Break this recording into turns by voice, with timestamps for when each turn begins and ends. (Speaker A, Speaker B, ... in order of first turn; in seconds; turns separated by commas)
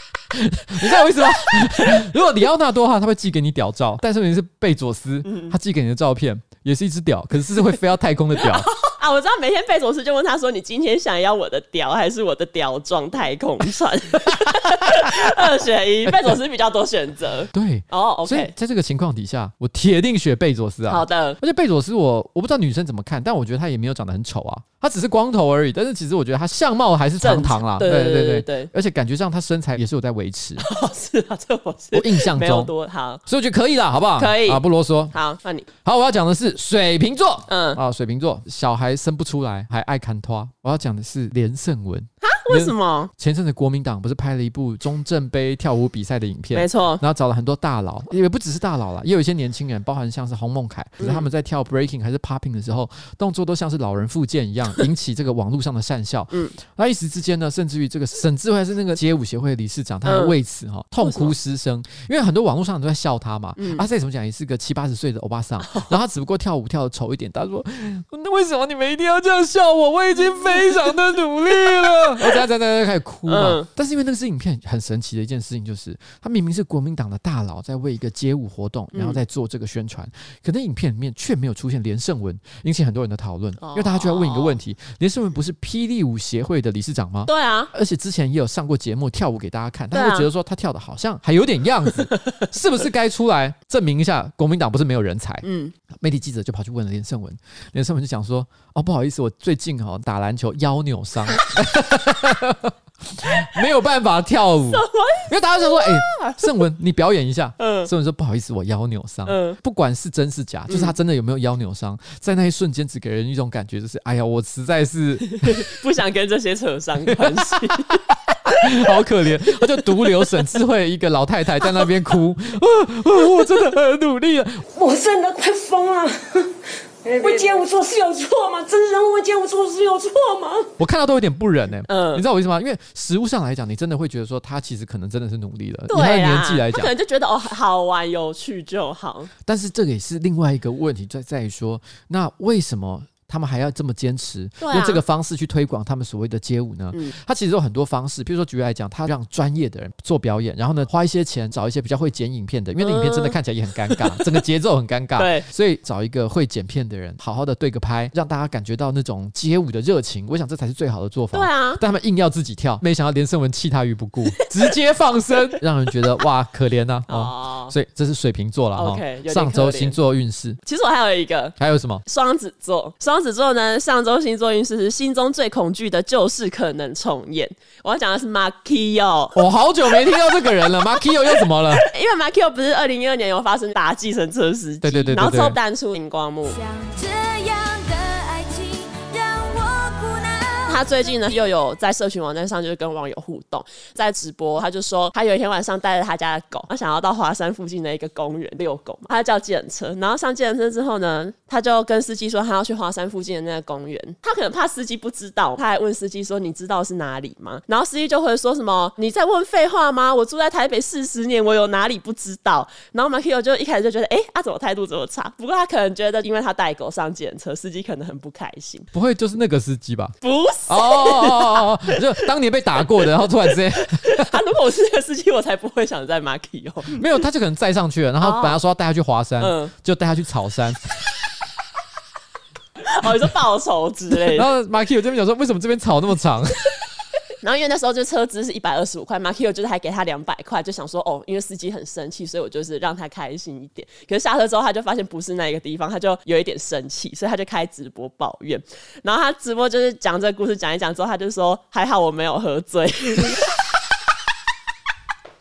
Speaker A: 0.3-8.7, Speaker B: 5.2-5.5, Speaker B: 8.4-18.5, Speaker A: 14.3-15.3, Speaker A: 16.1-16.4, Speaker A: 17.5-30.6, Speaker B: 20.9-21.4, Speaker B: 27.2-28.7, Speaker B: 30.6-33.2, Speaker A: 31.9-32.7, Speaker A: 33.3-35.1, Speaker B: 34.2-35.7, Speaker A: 35.8-115.7, Speaker B: 37.5-37.8, Speaker B: 42.2-43.1, Speaker B: 46.5-47.0, Speaker B: 51.0-51.3, Speaker B: 60.0-60.4, Speaker B: 61.0-61.3, Speaker B: 63.6-63.9, Speaker B: 73.3-73.7, Speaker B: 78.9-79.2, Speaker B: 83.6-84.6, Speaker B: 87.3-87.7, Speaker B: 89.9-90.3, Speaker B: 95.4-95.7, Speaker B: 104.7-106.5, Speaker B: 107.6-107.9, Speaker B: 109.3-109.6, Speaker B: 110.7-110.9, Speaker B: 115.3-118.8, Speaker A: 117.1-124.7, Speaker B: 120.0-120.3, Speaker C: 124.8-126.5, Speaker C: 127.0-130.7, Speaker B: 127.2-127.5, Speaker A: 130.8-136.9, Speaker B: 131.9-132.2, Speaker B: 135.9-139.3, Speaker A: 139.4-170.6, Speaker B: 144.6-145.0, Speaker B: 152.8-153.4, Speaker B: 153.9-154.3, Speaker B: 155.2-155.4, Speaker B: 161.3-161.8, Speaker B: 167.1-167.8, Speaker B: 168.8-170.0, Speaker B: 170.7-179.4, Speaker A: 171.6-172.0, Speaker A: 179.3-181.8, Speaker B: 181.3-186.6, Speaker A: 184.8-185.6, Speaker D: 186.4-191.3, Speaker B: 190.7-218.9, Speaker A: 218.9-220.2, Speaker B: 220.2-222.3, Speaker A: 220.7-224.4, Speaker B: 223.2-227.0, Speaker A: 226.9-230.8, Speaker B: 228.2-228.6, Speaker B: 229.4-229.7, Speaker B: 232.8-234.5, Speaker A: 234.1-236.6, Speaker B: 237.4-253.4